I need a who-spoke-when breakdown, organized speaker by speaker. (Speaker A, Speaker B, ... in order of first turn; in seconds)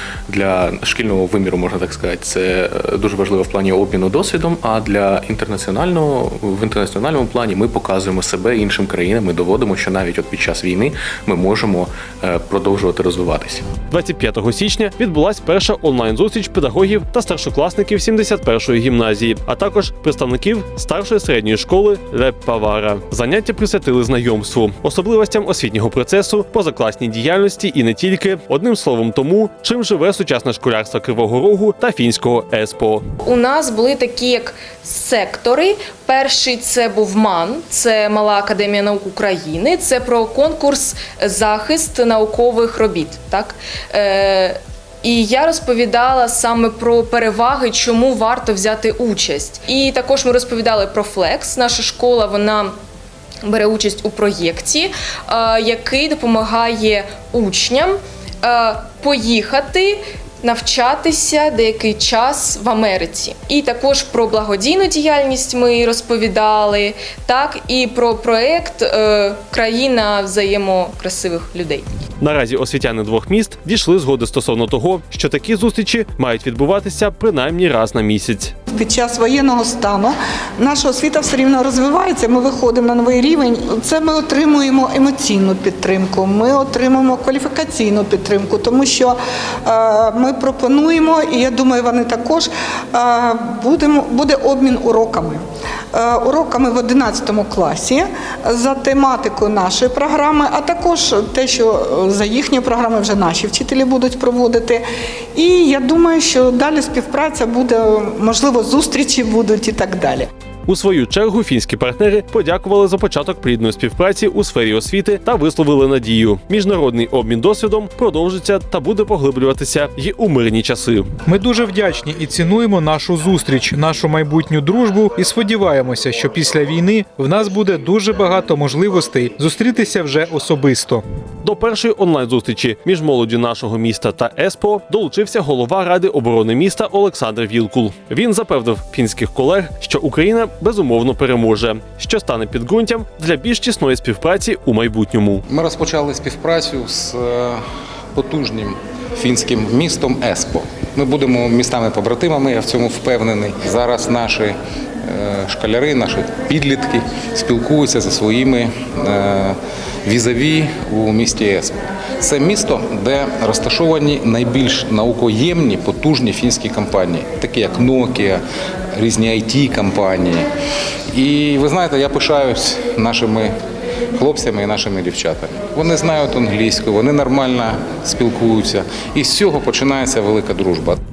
Speaker A: 0.3-13.6
Speaker B: 13.9-33.0, 72.2-78.5, 110.7-121.0, 131.4-145.4
Speaker C: 33.2-52.7, 53.4-71.9
Speaker D: 78.7-104.8, 105.3-110.3
Speaker E: 121.2-131.0
Speaker F: 145.5-147.6, 148.1-168.4, 168.9-170.5, 171.1-173.5, 174.1-181.0